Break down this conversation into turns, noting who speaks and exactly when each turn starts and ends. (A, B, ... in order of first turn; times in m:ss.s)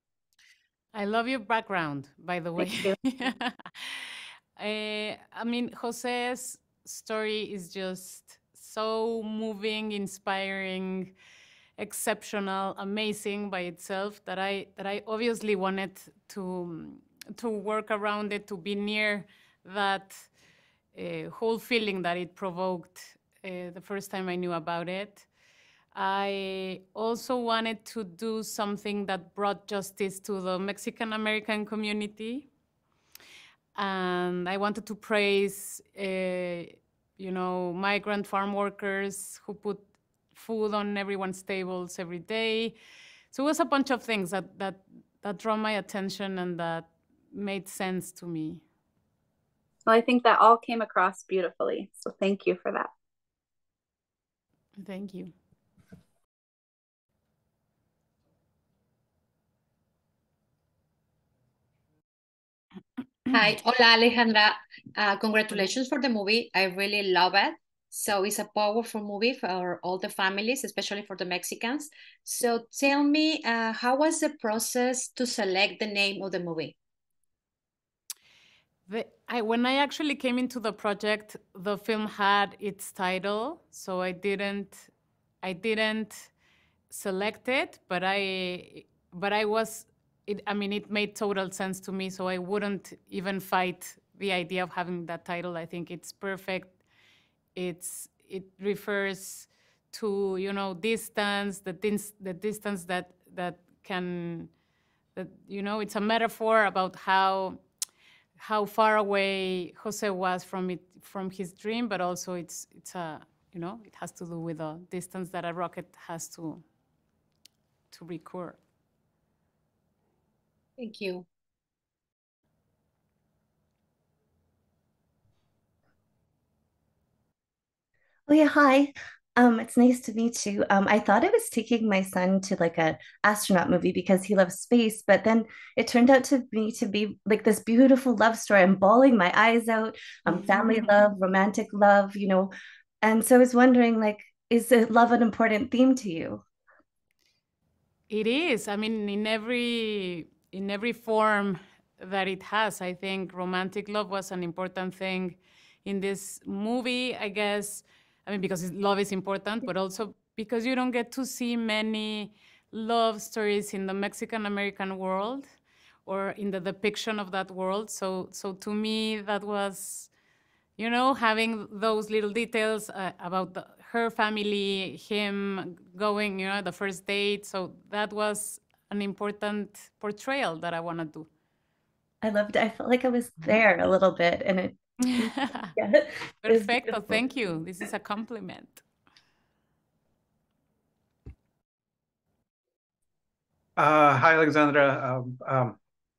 0:00.9-0:11.1 A
0:02.6-0:03.0 B
0:11.8-0:20.3 A
0:20.9-0:25.3 A
0:25.9-0:32.5 A
0:33.8-0:42.8 A
0:43.3-0:48.6 A
0:49.9-0:52.9 B
0:54.8-0:55.3 A
1:03.3-1:16.8 C
1:18.9-1:24.9 A
1:25.4-1:26.3 A
1:26.9-1:36.8 A
1:37.6-1:44.5 A
1:45.2-1:47.6 A
1:48.4-1:56.6 A
1:57.9-1:58.6 A
2:00.8-2:01.3 C
2:08.3-2:22.5 D
2:20.4-2:20.9 A
2:23.0-2:26.4 D
2:28.1-2:45.5 A
2:46.0-2:50.1 A
2:50.8-3:01.3 A
3:02.2-3:07.2 D
3:05.1-3:05.7 A
3:06.4-3:08.8 A
3:13.8-3:15.8 E